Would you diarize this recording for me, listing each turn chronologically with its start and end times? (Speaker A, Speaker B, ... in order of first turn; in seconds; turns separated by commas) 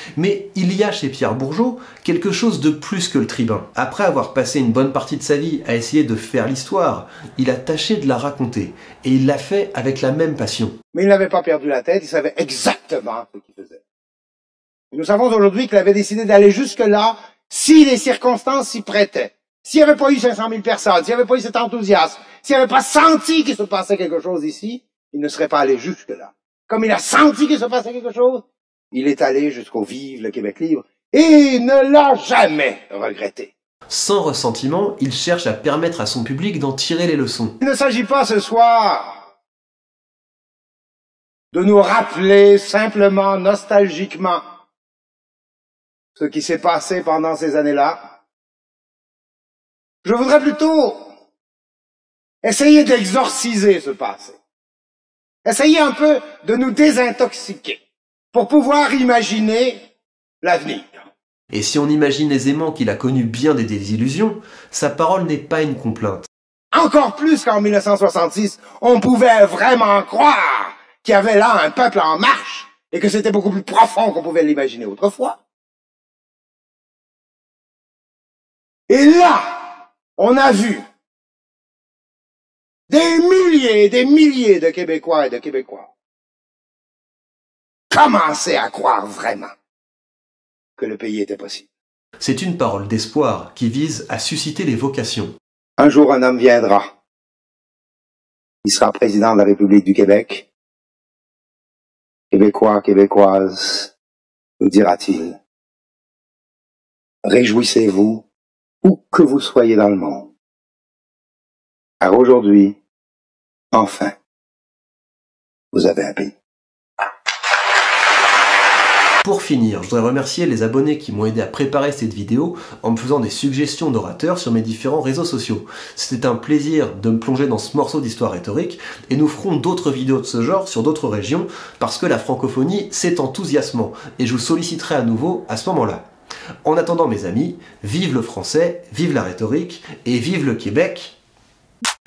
Speaker A: 0.2-10.8, Speaker B: 10.9-13.8, Speaker B: 14.9-33.5, Speaker A: 33.9-37.6, Speaker B: 37.6-39.2, Speaker B: 41.5-44.4, Speaker B: 46.2-48.0, Speaker B: 50.0-51.0, Speaker B: 52.4-54.4, Speaker B: 55.5-57.8, Speaker B: 58.3-59.8, Speaker B: 60.4-61.1, Speaker A: 61.5-66.3, Speaker B: 66.7-75.4, Speaker B: 78.9-79.7, Speaker B: 80.2-80.8, Speaker B: 82.9-85.9, Speaker B: 87.9-89.5, Speaker B: 90.8-91.7, Speaker A: 92.2-95.3, Speaker B: 95.8-96.9, Speaker B: 98.6-100.5, Speaker B: 102.3-103.9, Speaker B: 104.6-105.4, Speaker B: 107.3-108.2, Speaker B: 108.8-110.3, Speaker B: 112.0-112.8, Speaker B: 113.7-114.1, Speaker B: 115.7-116.3, Speaker A: 119.2-136.0, Speaker A: 136.7-141.2